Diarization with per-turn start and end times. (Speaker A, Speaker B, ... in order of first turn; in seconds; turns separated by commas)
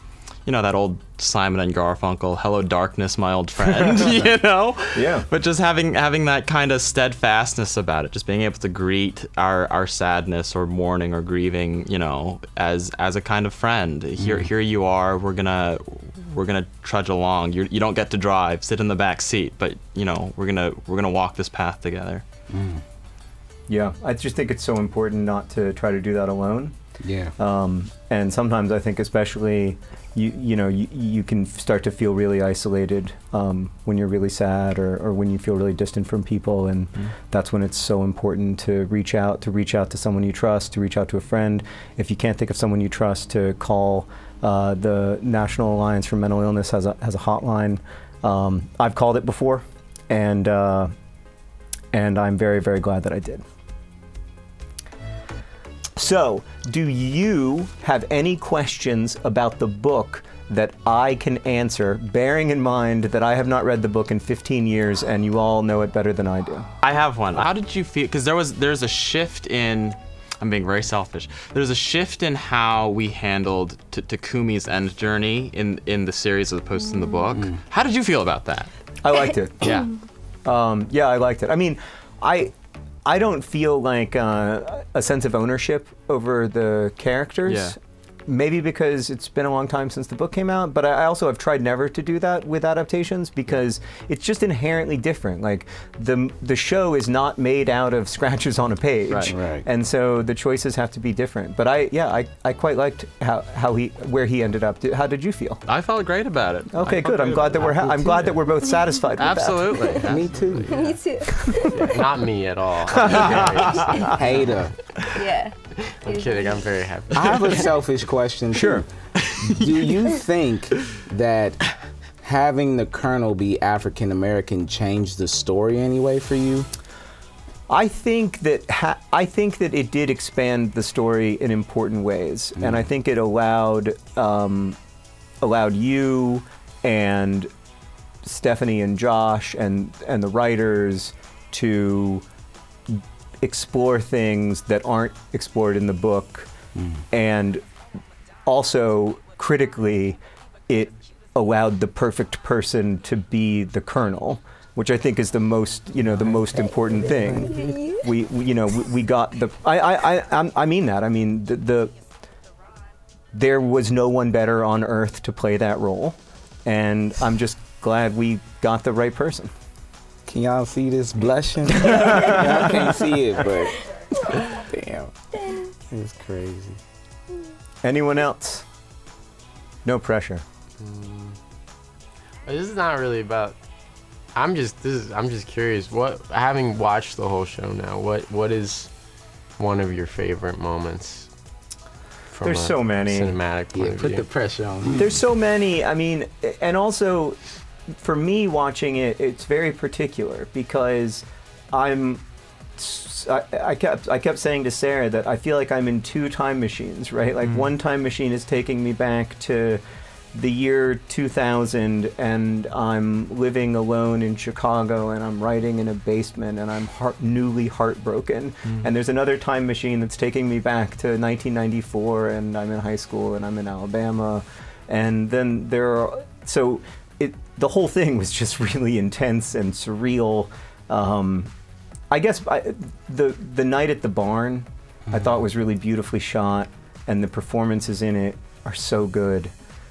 Speaker A: 0.5-22.2, Speaker B: 4.9-5.3, Speaker C: 14.2-14.4, Speaker C: 22.5-22.8, Speaker B: 23.7-26.8, Speaker C: 27.0-27.3, Speaker B: 27.4-50.9, Speaker B: 51.9-53.4, Speaker B: 56.0-66.7, Speaker A: 66.8-78.7, Speaker B: 79.0-79.8, Speaker A: 79.6-79.9, Speaker B: 80.4-82.5, Speaker B: 83.0-105.6, Speaker A: 87.5-87.7, Speaker A: 99.1-99.3, Speaker C: 99.3-99.6, Speaker A: 105.7-108.3, Speaker B: 106.7-109.9, Speaker A: 109.2-110.4, Speaker C: 110.0-110.8, Speaker D: 110.5-111.0, Speaker E: 110.7-111.7, Speaker B: 111.3-111.8, Speaker D: 111.5-114.7, Speaker B: 112.9-114.2, Speaker C: 114.1-114.7, Speaker E: 115.0-116.6, Speaker D: 115.7-117.7, Speaker C: 117.1-118.9, Speaker B: 118.5-118.8, Speaker A: 119.2-119.9, Speaker C: 119.4-121.6, Speaker C: 122.2-126.7, Speaker B: 127.7-134.8, Speaker B: 135.4-137.5, Speaker B: 138.2-142.2, Speaker B: 142.9-146.5, Speaker C: 146.8-147.0, Speaker B: 147.1-147.6, Speaker B: 148.4-161.9, Speaker C: 157.2-157.5, Speaker E: 157.5-158.1, Speaker B: 163.3-169.5, Speaker C: 170.3-175.1, Speaker B: 171.7-172.9, Speaker C: 175.9-176.8, Speaker B: 177.8-178.7, Speaker B: 179.8-180.4, Speaker D: 180.8-181.4, Speaker D: 182.4-183.6, Speaker D: 184.3-188.9, Speaker D: 189.6-191.3, Speaker D: 192.3-194.3, Speaker B: 192.4-193.3, Speaker C: 193.7-195.1, Speaker B: 194.9-202.2, Speaker B: 202.8-209.8, Speaker B: 210.3-231.5, Speaker B: 232.1-239.5